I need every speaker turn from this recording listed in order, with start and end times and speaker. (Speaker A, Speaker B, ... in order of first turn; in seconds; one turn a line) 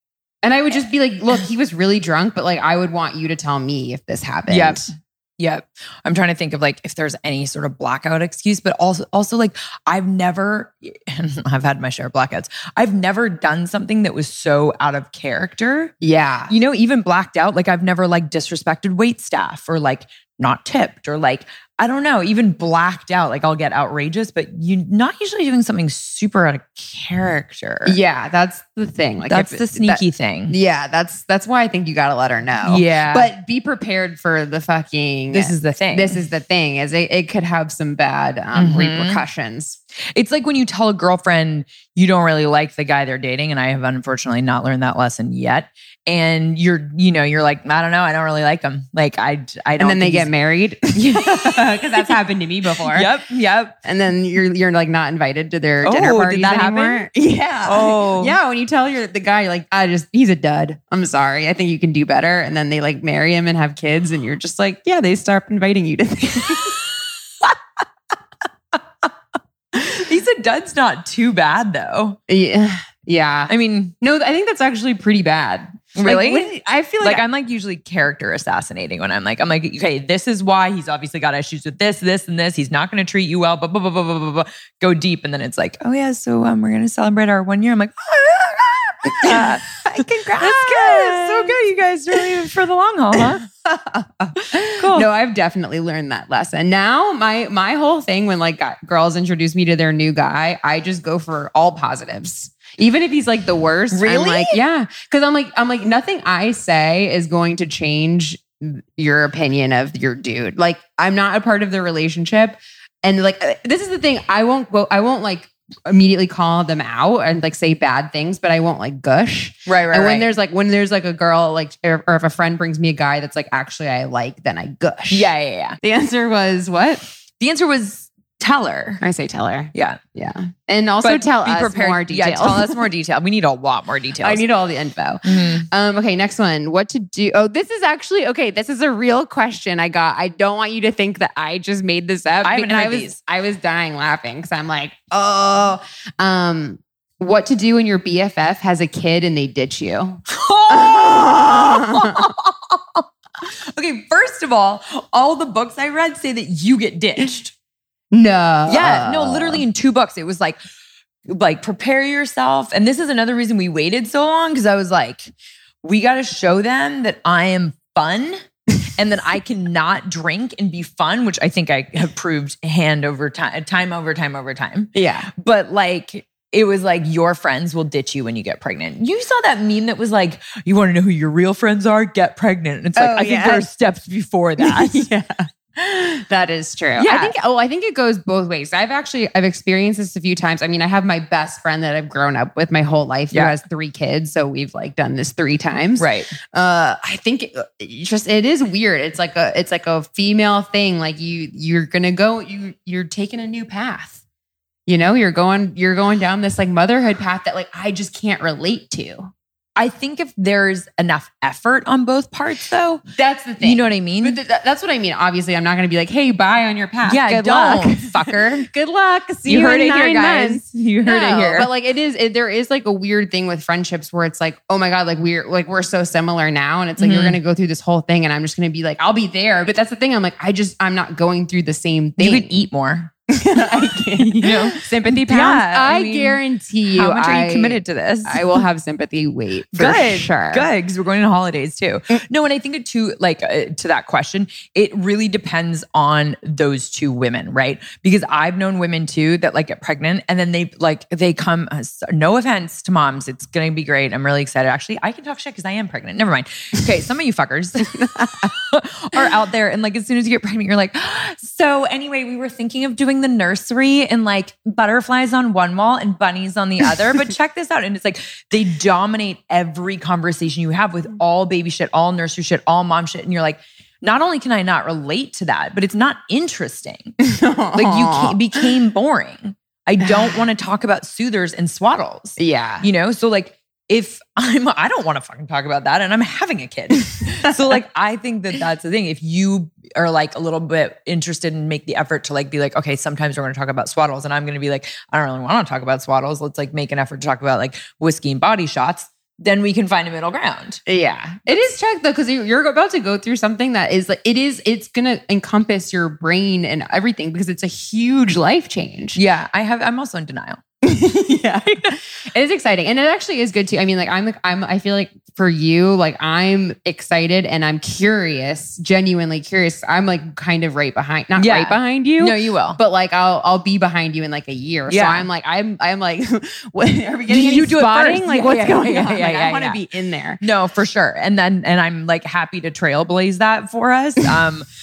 Speaker A: 0.4-4.9
Speaker B: 4.5-15.9
Speaker A: 16.0-16.5
Speaker B: 16.5-28.0
Speaker A: 27.9-39.8
Speaker B: 29.3-30.6
Speaker B: 32.6-33.3
Speaker B: 35.3-36.2
Speaker B: 38.5-39.2
Speaker B: 40.2-50.3
Speaker A: 49.8-53.1
Speaker B: 50.9-52.1
Speaker B: 52.8-53.8
Speaker A: 53.8-66.8
Speaker B: 55.8-57.1
Speaker B: 57.6-58.4
Speaker B: 69.7-72.2
Speaker A: 72.3-77.2
Speaker B: 73.5-73.9
Speaker B: 76.0-76.5
Speaker B: 77.0-93.5
Speaker A: 89.1-91.6
Speaker A: 93.2-125.3
Speaker B: 94.4-95.1
Speaker B: 103.9-104.6
Speaker B: 119.7-120.3
Speaker B: 125.1-125.8
Speaker A: 125.8-127.0
Speaker B: 127.4-129.0
Speaker A: 129.0-132.8
Speaker B: 129.7-130.0
Speaker B: 131.0-134.4
Speaker A: 134.2-152.3
Speaker B: 135.3-135.7
Speaker B: 142.4-143.2
Speaker B: 150.3-157.6
Speaker A: 158.1-159.6
Speaker B: 158.7-160.6
Speaker B: 161.3-165.3
Speaker B: 165.8-185.1
Speaker A: 174.9-175.3
Speaker A: 183.0-183.7
Speaker A: 184.6-204.2
Speaker B: 187.0-187.3
Speaker B: 193.3-193.6
Speaker B: 196.0-196.3
Speaker A: 204.9-209.3
Speaker B: 209.8-213.0
Speaker A: 213.1-232.7
Speaker B: 213.6-214.4
Speaker B: 217.1-218.7
Speaker B: 219.5-221.7
Speaker B: 227.0-227.4
Speaker B: 232.2-233.1
Speaker A: 233.3-240.7
Speaker B: 234.2-236.4
Speaker B: 236.9-238.6
Speaker B: 239.8-277.2
Speaker A: 257.9-258.5
Speaker A: 277.2-278.7
Speaker B: 277.7-300.8
Speaker A: 282.4-282.9
Speaker A: 287.3-287.5
Speaker A: 300.9-309.2
Speaker B: 309.1-310.6
Speaker A: 310.8-330.4
Speaker B: 321.4-322.8
Speaker B: 324.9-325.3
Speaker B: 327.3-329.8
Speaker B: 330.4-334.7